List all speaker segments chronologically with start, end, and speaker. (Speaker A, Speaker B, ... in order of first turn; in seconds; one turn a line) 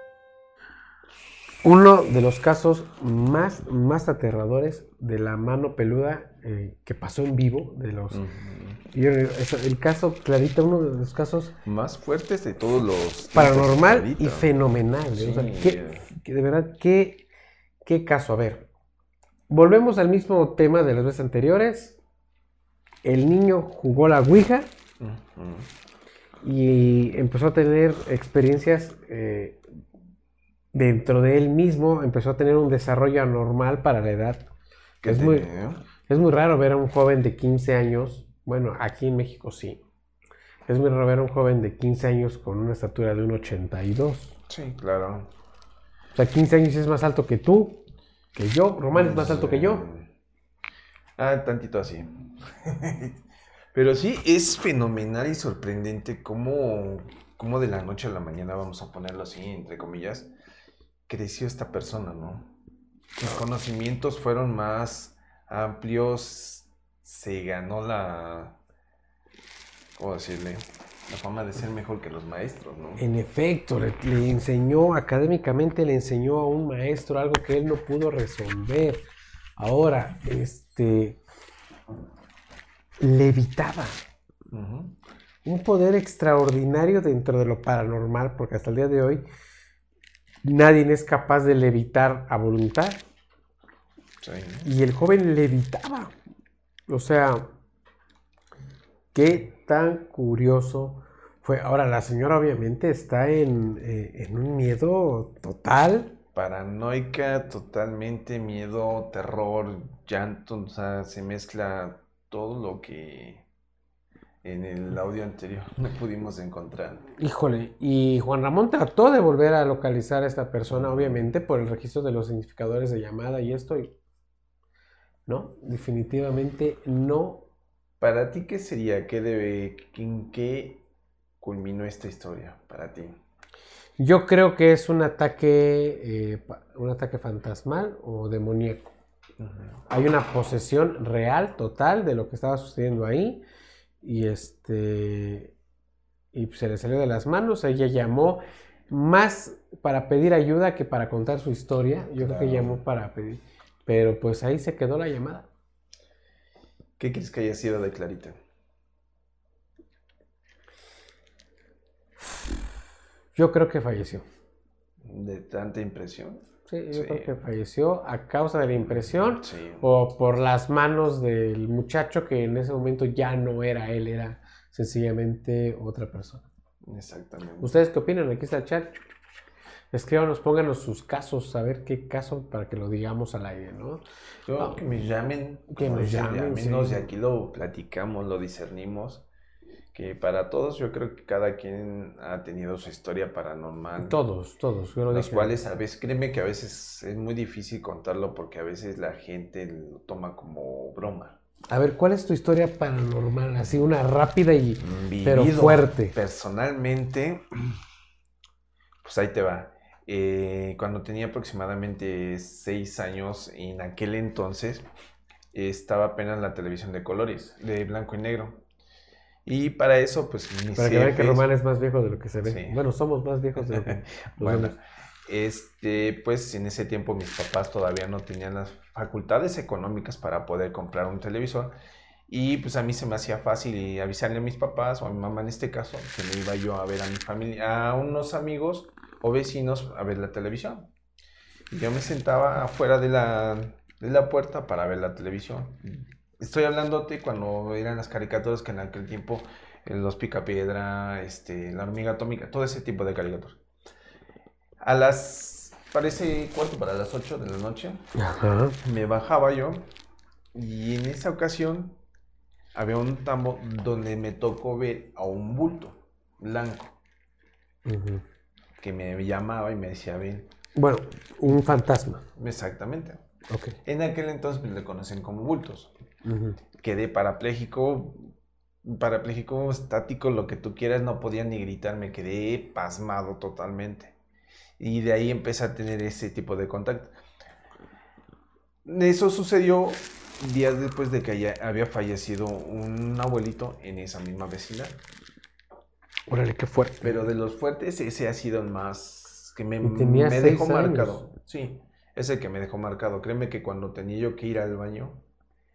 Speaker A: 1.6-8.2
Speaker B: 8.1-8.8
Speaker A: 8.9-11.5
Speaker B: 11.6-14.6
Speaker A: 13.3-17.2
Speaker B: 15.1-16.1
Speaker A: 17.8-18.7
Speaker A: 19.5-22.0
Speaker A: 23.0-24.7
Speaker B: 25.0-25.7
Speaker A: 26.4-29.6
Speaker A: 30.7-34.5
Speaker B: 35.0-35.8
Speaker A: 35.0-35.5
Speaker A: 36.1-39.8
Speaker A: 40.7-44.3
Speaker B: 44.5-45.3
Speaker A: 46.1-47.8
Speaker A: 48.3-49.8
Speaker B: 48.9-50.1
Speaker B: 51.2-53.2
Speaker B: 53.7-60.3
Speaker B: 61.1-62.5
Speaker B: 63.2-68.5
Speaker B: 70.0-73.0
Speaker A: 73.0-79.0
Speaker A: 79.6-81.2
Speaker A: 83.0-84.0
Speaker B: 84.5-84.9
Speaker A: 85.4-89.2
Speaker A: 90.4-93.0
Speaker B: 94.2-94.7
Speaker A: 94.6-96.1
Speaker A: 96.9-97.5
Speaker A: 99.1-106.1
Speaker B: 106.3-113.4
Speaker B: 114.4-117.0
Speaker A: 117.2-123.9
Speaker B: 120.7-121.2
Speaker A: 125.3-127.4
Speaker B: 128.0-130.8
Speaker B: 131.4-133.2
Speaker A: 134.0-138.9
Speaker B: 139.4-139.8
Speaker A: 139.9-143.4
Speaker A: 144.0-145.5
Speaker A: 146.3-155.5
Speaker B: 152.2-152.8
Speaker B: 157.0-158.4
Speaker A: 163.3-164.2
Speaker B: 165.0-167.4
Speaker A: 166.7-176.4
Speaker B: 168.7-169.9
Speaker B: 176.8-177.7
Speaker A: 177.6-179.1
Speaker A: 179.9-184.0
Speaker B: 184.5-189.2
Speaker A: 185.7-187.1
Speaker B: 189.9-194.2
Speaker A: 194.0-195.6
Speaker B: 195.1-201.4
Speaker A: 201.7-206.1
Speaker B: 204.8-207.8
Speaker B: 209.0-214.9
Speaker B: 215.5-218.6
Speaker B: 219.4-221.5
Speaker A: 220.7-224.7
Speaker B: 222.4-222.8
Speaker B: 223.6-231.8
Speaker B: 232.3-240.9
Speaker B: 241.7-253.6
Speaker B: 254.8-258.0
Speaker A: 258.1-258.8
Speaker B: 258.8-259.9
Speaker B: 260.5-262.0
Speaker B: 262.7-266.9
Speaker A: 267.9-268.2
Speaker B: 268.8-270.5
Speaker A: 270.8-272.2
Speaker B: 272.4-273.2
Speaker A: 273.5-273.8
Speaker B: 273.8-275.9
Speaker A: 276.2-276.6
Speaker B: 276.8-278.3
Speaker B: 278.8-284.1
Speaker B: 284.8-287.1
Speaker B: 288.8-295.0
Speaker A: 296.3-297.1
Speaker B: 297.0-305.2
Speaker A: 299.8-301.3